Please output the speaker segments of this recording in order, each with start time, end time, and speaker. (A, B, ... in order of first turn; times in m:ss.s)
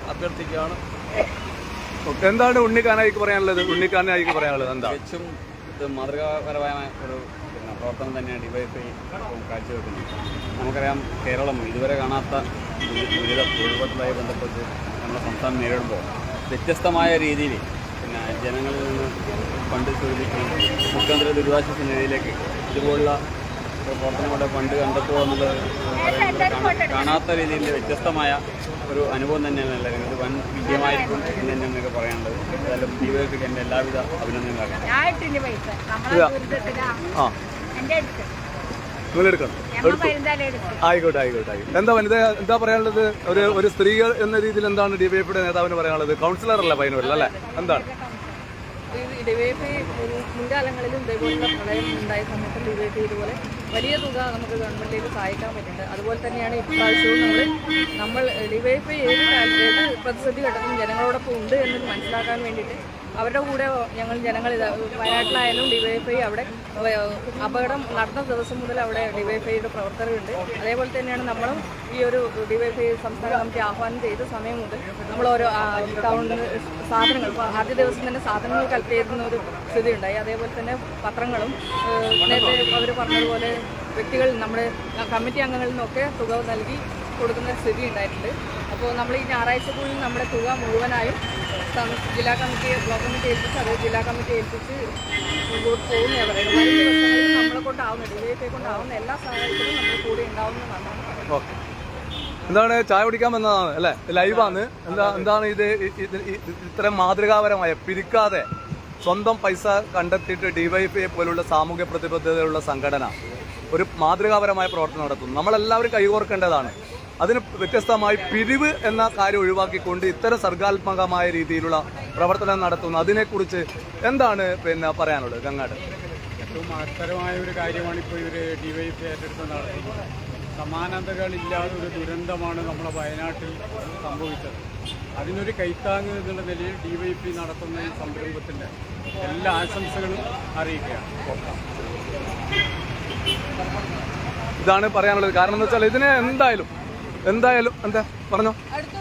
0:02.1-0:05.0 A
0:04.6-0:23.2 B
0:23.8-0:34.9 B
0:26.3-0:27.2 C
0:30.7-0:31.2 C
0:35.2-0:36.8 C
0:35.2-0:35.7 D
0:37.8-0:38.3 C
0:39.1-0:40.1 A
0:39.8-0:40.7 C
0:40.8-0:47.9 A
0:48.9-1:34.8 D
1:35.5-1:41.2 D
1:41.3-1:41.6 A
1:42.5-1:48.5 A
1:49.0-1:53.1 A
1:53.7-2:05.8 A
2:06.4-2:14.6 E
2:15.2-2:21.1 E
2:24.6-2:26.7 A
2:27.3-2:28.6 A